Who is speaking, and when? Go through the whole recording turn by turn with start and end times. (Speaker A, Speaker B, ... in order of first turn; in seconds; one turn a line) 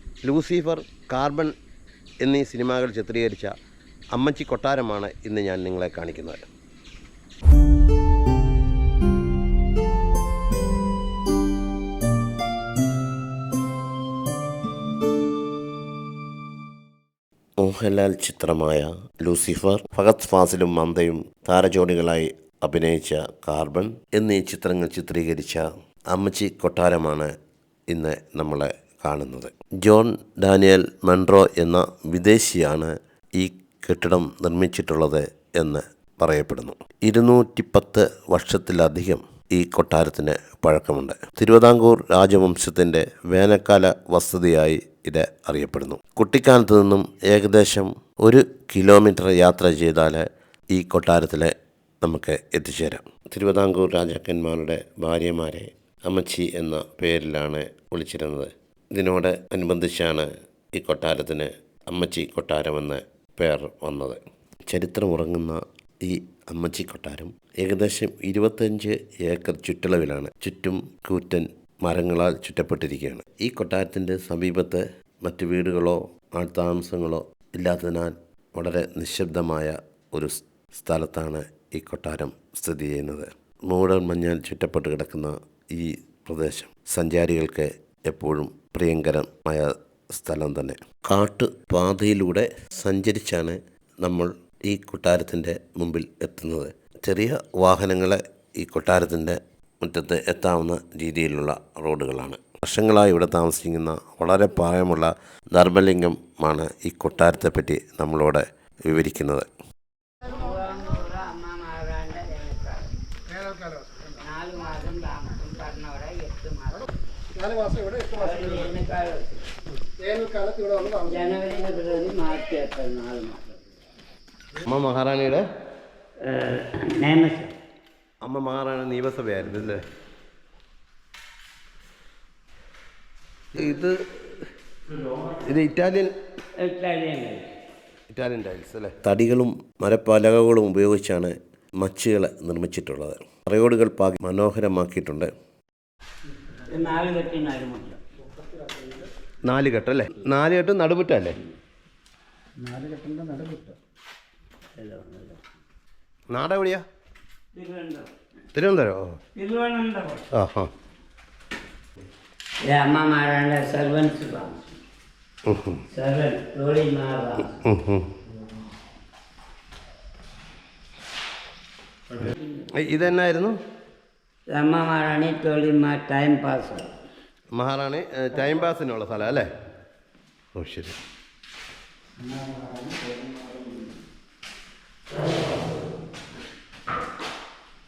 Speaker A: 0.2-1.5
Speaker A: 2.2-3.5
Speaker A: 4.1-6.5
Speaker A: 17.6-27.3
Speaker A: 27.9-109.5
Speaker B: 110.3-112.9
Speaker C: 113.6-114.1
Speaker B: 114.2-116.9
Speaker C: 117.3-118.3
Speaker B: 118.1-119.4
Speaker C: 120.0-121.0
Speaker B: 120.9-123.6
Speaker A: 124.6-125.4
Speaker B: 126.2-127.5
Speaker A: 128.2-129.8
Speaker A: 133.5-134.0
Speaker A: 135.3-136.1
Speaker B: 136.6-137.5
Speaker A: 138.1-145.3
Speaker B: 146.7-148.0
Speaker C: 148.3-149.1
Speaker A: 149.4-151.4
Speaker C: 152.6-153.8
Speaker B: 154.8-155.4
Speaker A: 156.3-156.8
Speaker B: 157.5-158.1
Speaker A: 158.5-159.1
Speaker B: 159.3-160.3
Speaker A: 160.3-160.7
Speaker B: 162.7-164.8
Speaker A: 165.4-165.8
Speaker B: 165.9-167.7
Speaker A: 167.6-168.1
Speaker B: 172.1-172.7
Speaker A: 172.2-173.5
Speaker B: 174.5-176.9
Speaker A: 177.6-179.5
Speaker A: 180.5-180.9
Speaker C: 182.3-183.7